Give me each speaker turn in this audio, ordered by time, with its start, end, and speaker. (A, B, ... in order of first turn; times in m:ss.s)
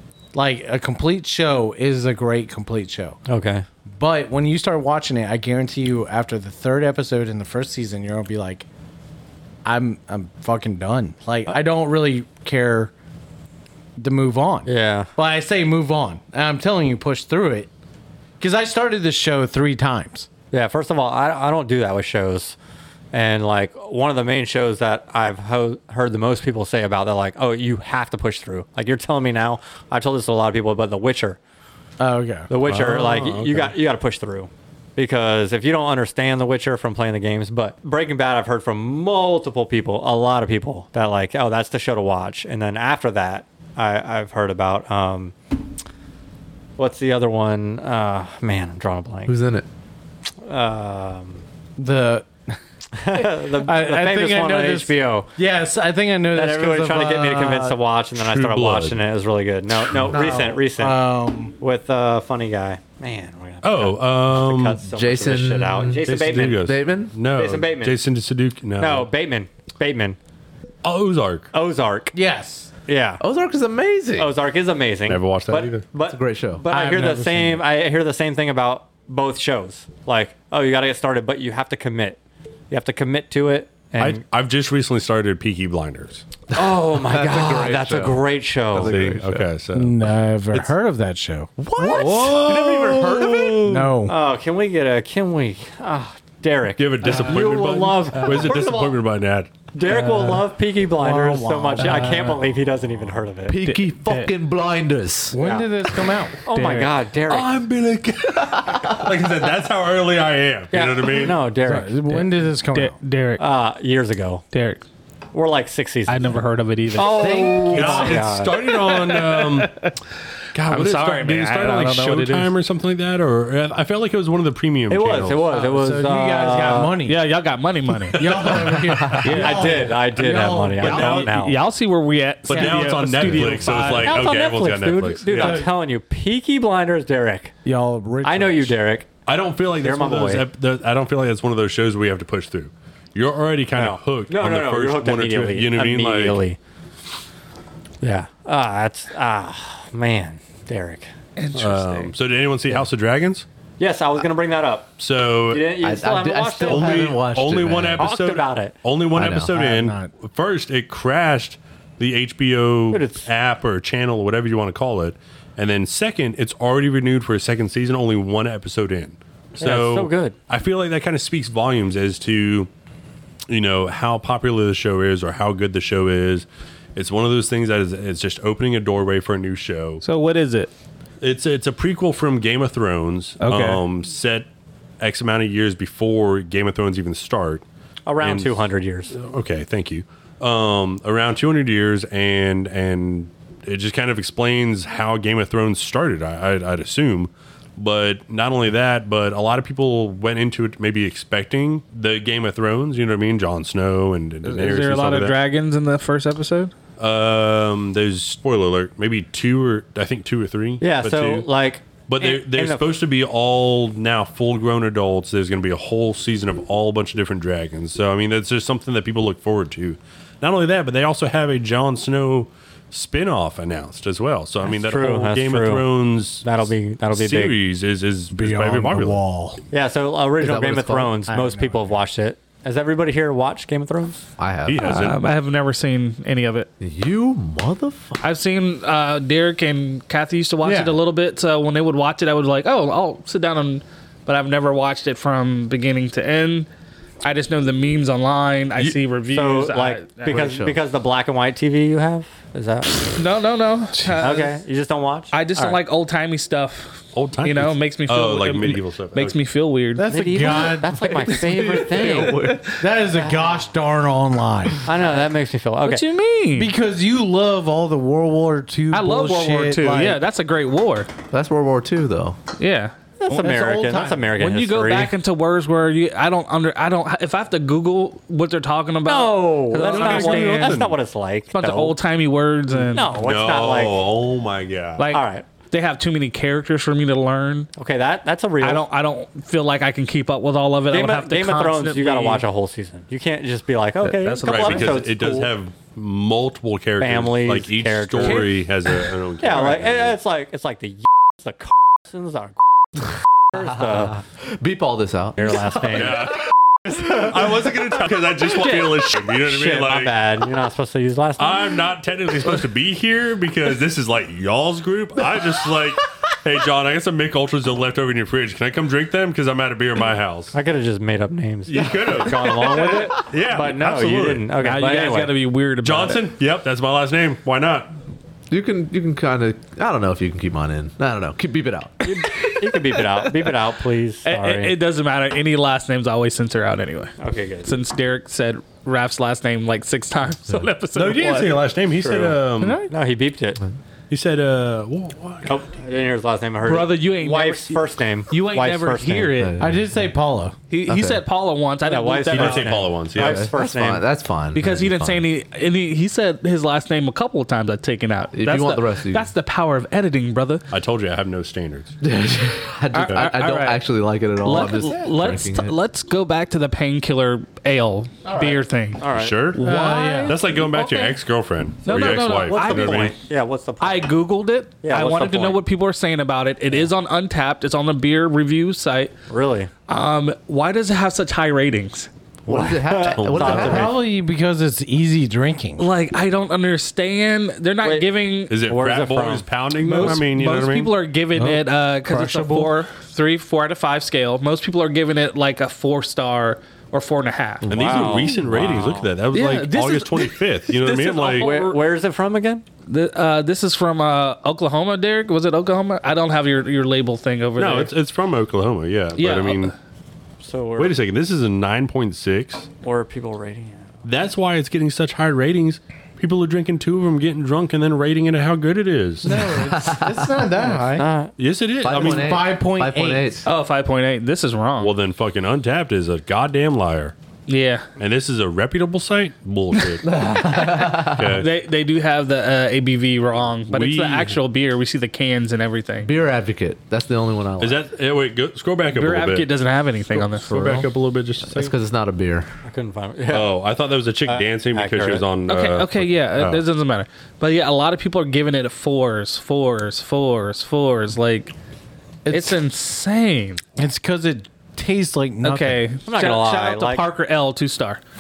0:00.3-0:03.2 A
0:03.3-0:03.6 B
0:03.9-0:08.6 A
0:09.6-0:12.9 A
0:14.0-0:17.7 A
0:14.6-0:15.1 B
0:18.4-0:20.3 A
0:20.5-0:22.6 B
0:23.1-0:31.4 B
0:32.0-0:32.5 A
0:32.5-0:45.4 B
0:32.6-0:33.8 C
0:46.8-0:49.3 B
0:49.3-0:49.6 D
0:50.4-0:51.4 B
0:51.8-0:52.6 A
0:53.0-0:55.3 B
0:53.1-0:57.8 A
0:56.3-1:01.0 B
0:58.1-0:59.0 C
0:59.7-1:00.1 C
1:00.0-1:01.5 A
1:01.6-1:06.7 B
1:03.6-1:04.8 C
1:04.8-1:07.1 D
1:06.0-1:09.1 C
1:07.3-1:08.0 B
1:08.8-1:10.2 B
1:10.8-1:11.5 C
1:11.5-1:12.1 B
1:12.1-1:12.7 A
1:12.9-1:13.2 B
1:13.2-1:14.3 D
1:14.2-1:22.2 B
1:15.0-1:15.9 C
1:16.0-1:16.6 D
1:16.7-1:17.6 A
1:22.7-1:24.2 B
1:24.0-1:26.2 C
1:26.5-1:29.0 B
1:26.6-1:29.5 D
1:28.8-1:30.7 C
1:29.7-1:31.5 A
1:31.6-1:33.6 D
1:31.8-1:33.9 C
1:33.6-1:34.2 A
1:34.0-1:39.0 B
1:36.8-1:39.7 C
1:39.7-1:43.6 B
1:39.9-1:40.3 E
1:39.9-1:40.4 A
1:40.9-1:42.5 A
1:41.8-1:42.2 E
1:43.5-1:45.4 D
1:43.6-1:44.3 E
1:45.3-1:46.4 A
1:45.4-1:45.7 B
1:46.5-1:47.5 B
1:46.5-1:46.9 E
1:47.3-1:51.4 C
1:48.5-1:49.0 D
1:50.7-1:52.0 B
1:51.6-1:53.0 A
1:52.1-1:53.4 E
1:53.4-1:54.4 B
1:54.5-1:54.8 E
1:55.3-1:58.7 B
1:56.1-1:57.5 E
1:57.0-1:58.3 A
1:57.6-1:59.7 C
1:58.8-2:00.0 E
2:00.5-2:05.5 C
2:00.7-2:02.5 E
2:04.9-2:07.0 B
2:05.5-2:07.2 A
2:07.0-2:08.5 E
2:08.1-2:09.1 C
2:08.1-2:11.2 A
2:08.8-2:09.3 D
2:09.2-2:09.9 E
2:09.3-2:11.6 B
2:10.4-2:11.4 C
2:10.9-2:14.2 E
2:12.5-2:15.7 C
2:12.5-2:13.6 A
2:13.8-2:17.5 B
2:15.3-2:15.7 A
2:17.6-2:18.8 A
2:18.2-2:19.1 B
2:19.2-2:26.4 C
2:19.8-2:20.5 B
2:23.8-2:26.6 B
2:28.0-2:31.1 B
2:31.4-2:32.1 E
2:31.5-2:33.4 C
2:33.8-2:37.1 B
2:35.0-2:35.7 C
2:35.8-2:38.1 D
2:36.6-2:52.7 C
2:38.0-2:38.8 B
2:39.1-2:39.5 D
2:39.5-2:40.1 A
2:42.9-2:43.3 B
2:49.6-2:50.4 B
2:53.5-3:00.0 C
3:00.0-3:00.7 E
3:01.2-3:04.5 C
3:03.4-3:03.8 E
3:05.0-3:07.6 C
3:08.1-3:09.1 B
3:08.2-3:25.4 C
3:24.4-3:26.7 E
3:27.0-3:31.5 C
3:30.8-3:32.9 B
3:32.1-3:49.2 C
3:44.6-3:47.6 B
3:48.3-3:49.6 A
3:49.7-3:54.2 B
3:50.4-3:51.2 D
3:51.3-3:52.0 A
3:54.4-3:55.0 D
3:54.6-3:55.2 C
3:54.8-3:56.7 E
3:56.8-3:58.2 D
3:58.2-4:06.7 E
4:00.6-4:01.0 A
4:07.2-4:10.5 E
4:09.3-4:13.1 B
4:10.3-4:10.8 D
4:13.1-4:14.5 E
4:14.0-4:14.2 A
4:14.2-4:15.8 B
4:15.3-4:20.1 E
4:17.1-4:19.4 C
4:20.0-4:21.0 A
4:20.1-4:22.4 B
4:21.0-4:22.8 D
4:22.0-4:22.5 E
4:22.8-4:24.8 A
4:23.2-4:23.6 B
4:24.8-4:26.0 B
4:25.8-4:26.7 E
4:26.6-4:30.2 A
4:28.9-4:31.1 E
4:31.3-4:32.4 D
4:32.6-4:32.9 E
4:33.2-4:35.1 B
4:33.3-4:34.4 A
4:34.4-4:40.9 E
4:39.1-4:42.0 B
4:39.8-4:41.0 C
4:41.5-4:43.2 E
4:42.9-4:44.1 B
4:43.2-4:45.1 C
4:45.0-4:47.7 E
4:45.1-4:45.4 B
4:47.8-4:48.8 B
4:48.6-4:52.4 E
4:50.9-4:55.5 B
4:54.0-4:55.0 E
4:54.4-5:00.2 C
4:57.0-4:58.6 B
4:59.4-5:02.6 B
5:03.5-5:04.2 B
5:03.6-5:06.1 D
5:05.4-5:06.3 B
5:05.9-5:06.4 C
5:06.9-5:10.1 C
5:08.6-5:11.8 B
5:11.4-5:20.6 C
5:20.5-5:25.3 B
5:21.7-5:24.5 C
5:24.6-5:26.2 E
5:25.8-5:27.9 C
5:28.5-5:33.5 D
5:32.0-5:34.7 B
5:34.2-5:41.6 E
5:37.2-5:37.7 B
5:40.9-5:42.9 C
5:42.0-5:43.6 B
5:42.6-5:42.9 E
5:44.1-5:45.6 C
5:45.4-5:49.3 B
5:46.6-5:49.6 E
5:49.4-5:50.0 D
5:49.6-5:50.6 A
5:50.7-5:52.7 E
5:50.9-5:51.2 D
5:51.8-5:54.0 B
5:52.3-5:53.5 C
5:53.1-5:55.2 D
5:54.5-6:00.6 E
5:58.3-5:59.3 D
6:00.7-6:01.9 C
6:02.0-6:05.8 D
6:02.9-6:03.8 E
6:03.0-6:03.2 C
6:04.4-6:09.0 E
6:09.0-6:09.4 B
6:09.1-6:13.1 C
6:09.6-6:11.2 E
6:09.6-6:10.4 A
6:11.8-6:13.1 E
6:11.9-6:14.1 B
6:13.8-6:19.1 E
6:14.8-6:15.6 B
6:19.3-6:19.7 B
6:19.9-6:22.1 E
6:22.4-6:24.0 D
6:22.5-6:24.0 B
6:23.1-6:23.9 C
6:23.5-6:25.9 A
6:25.8-6:28.6 E
6:27.8-6:28.1 B
6:28.5-6:30.9 C
6:28.6-6:29.4 B
6:29.8-6:37.7 E
6:31.4-6:32.7 A
6:37.6-6:39.0 D
6:37.7-6:41.5 C
6:37.7-6:39.1 B
6:39.3-6:41.8 E
6:41.4-6:42.6 B
6:42.9-6:47.9 E
6:47.6-6:49.7 C
6:49.2-6:49.7 E
6:50.4-6:51.0 B
6:50.8-6:52.7 C
6:52.8-6:53.9 B
6:54.0-6:59.4 C
6:59.2-7:01.1 A
6:59.2-7:00.5 D
7:00.9-7:01.3 B
7:01.4-7:02.4 C
7:01.8-7:03.4 D
7:02.0-7:03.4 A
7:03.4-7:04.9 E
7:04.8-7:07.1 C
7:07.5-7:07.9 E
7:08.0-7:10.0 C
7:09.7-7:16.1 E
7:10.0-7:11.4 D
7:11.1-7:11.5 C
7:13.7-7:14.4 C
7:16.0-7:17.8 D
7:17.6-7:19.5 C
7:18.9-7:20.9 E
7:20.1-7:21.7 C
7:21.4-7:22.5 D
7:22.6-7:23.6 B
7:23.3-7:26.6 C
7:24.2-7:25.3 B
7:25.5-7:31.5 E
7:32.3-7:32.6 A
7:32.3-7:33.6 E
7:33.8-7:35.8 A
7:35.4-7:38.0 E
7:36.1-7:37.1 B